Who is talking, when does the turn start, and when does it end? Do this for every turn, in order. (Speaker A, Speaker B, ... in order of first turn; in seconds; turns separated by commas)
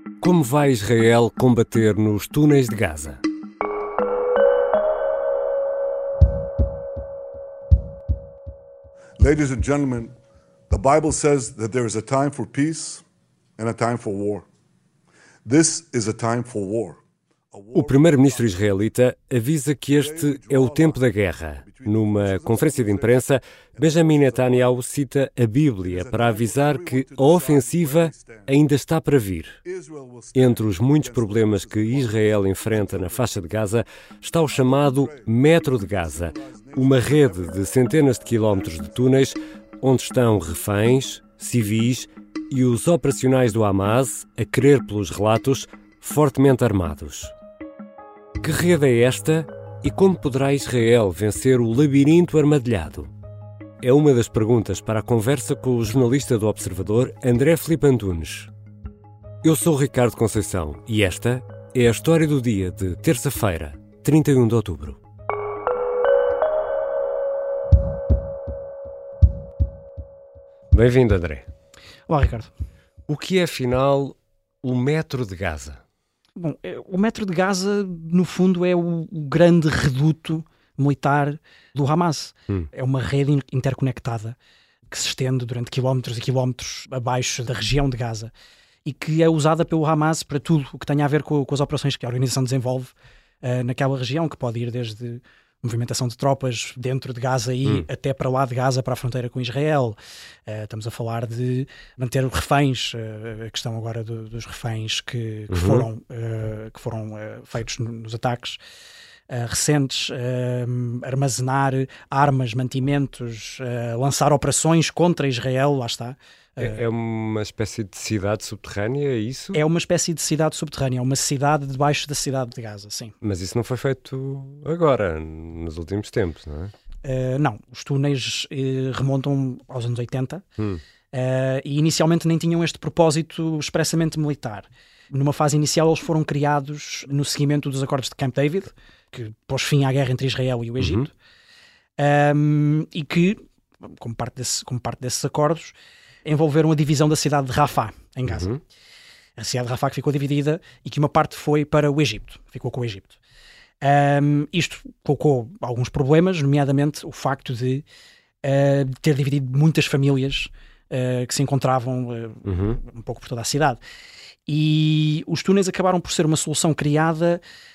Speaker A: 0.2-3.2, Speaker B: 9.2-10.1, Speaker B: 10.7-13.0, Speaker B: 13.6-14.4, Speaker B: 15.4-17.0, Speaker B: 17.5-18.5, Speaker A: 17.7-29.6, Speaker B: 19.9-21.0, Speaker B: 21.6-23.2, Speaker B: 23.8-24.7, Speaker B: 25.8-28.6, Speaker B: 29.6-33.3, Speaker A: 30.3-47.3, Speaker B: 34.5-39.0, Speaker A: 48.4-53.1, Speaker A: 53.8-58.5, Speaker A: 59.4-65.0, Speaker A: 70.7-71.5, Speaker C: 72.1-72.5, Speaker A: 73.1-75.8, Speaker C: 76.3-84.3, Speaker C: 84.9-88.3, Speaker C: 88.8-108.6, Speaker A: 105.5-105.9, Speaker C: 109.3-116.8, Speaker A: 116.6-119.6, Speaker C: 119.5-123.1, Speaker A: 123.2-126.7, Speaker C: 127.0-130.4, Speaker C: 131.1-141.1, Speaker A: 140.8-141.1, Speaker C: 142.0-148.5, Speaker A: 148.3-148.6, Speaker C: 149.4-153.2, Speaker C: 153.8-157.8, Speaker C: 158.4-163.8, Speaker A: 162.4-162.8, Speaker C: 164.5-167.4